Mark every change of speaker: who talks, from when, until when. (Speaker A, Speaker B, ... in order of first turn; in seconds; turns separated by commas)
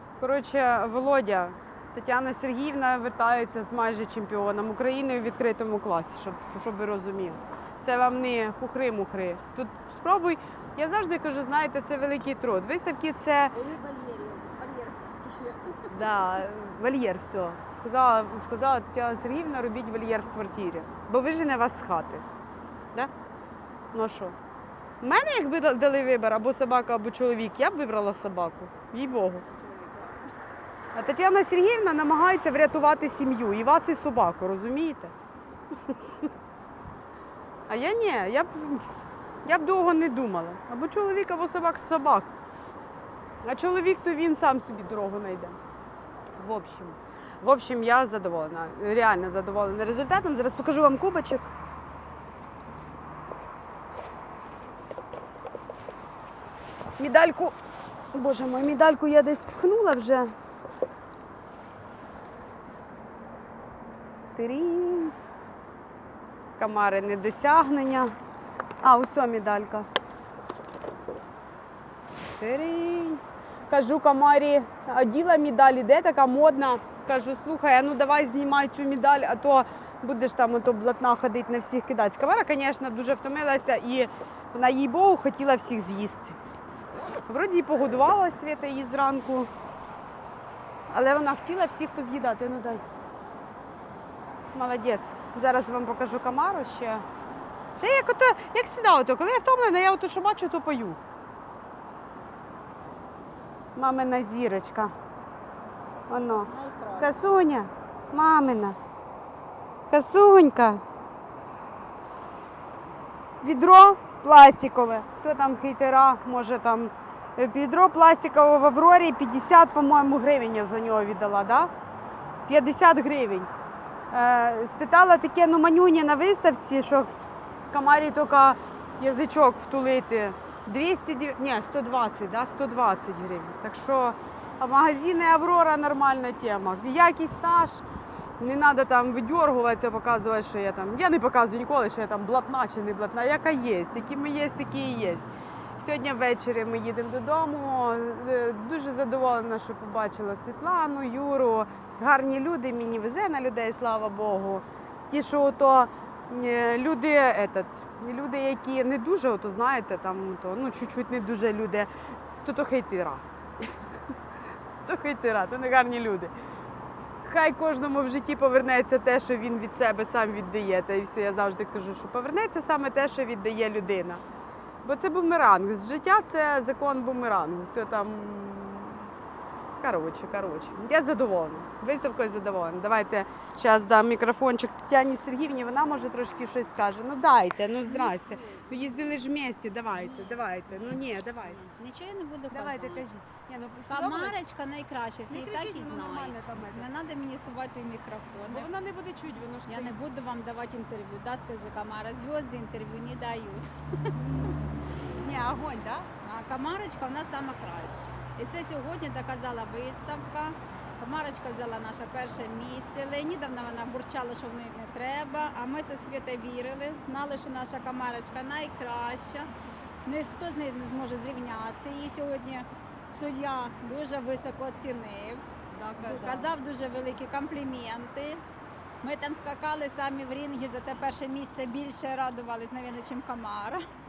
Speaker A: 0.2-13.5, Speaker B: 13.5-16.2, Speaker A: 15.9-22.2, Speaker A: 23.9-24.4, Speaker A: 25.0-29.5, Speaker B: 29.5-30.3, Speaker A: 30.9-35.1, Speaker A: 35.9-36.2, Speaker A: 37.7-38.9, Speaker A: 39.5-42.3, Speaker A: 43.4-45.6, Speaker A: 46.4-51.5, Speaker A: 57.0-57.5, Speaker A: 58.1-60.3, Speaker A: 64.4-65.2, Speaker A: 66.6-68.1, Speaker A: 68.8-69.9, Speaker A: 72.3-86.4, Speaker A: 87.3-89.5, Speaker A: 90.9-92.8, Speaker A: 94.5-97.0, Speaker A: 97.8-101.0, Speaker A: 103.8-104.9, Speaker A: 106.1-108.8, Speaker B: 106.3-107.2, Speaker A: 109.9-110.8, Speaker A: 113.4-121.7, Speaker A: 122.5-123.5, Speaker A: 124.1-137.8, Speaker A: 138.4-161.9, Speaker A: 162.4-163.2, Speaker A: 164.8-166.3, Speaker A: 167.2-174.2, Speaker A: 174.8-179.1, Speaker A: 179.8-191.7, Speaker B: 187.9-188.6, Speaker B: 191.6-193.1, Speaker A: 192.5-194.4, Speaker B: 193.9-198.7, Speaker A: 195.3-196.9, Speaker A: 198.5-200.2, Speaker B: 199.7-204.1, Speaker A: 204.2-204.6, Speaker A: 205.1-206.1, Speaker B: 206.2-219.5, Speaker B: 220.1-225.4, Speaker A: 225.7-226.6, Speaker B: 226.0-228.4, Speaker B: 229.0-233.8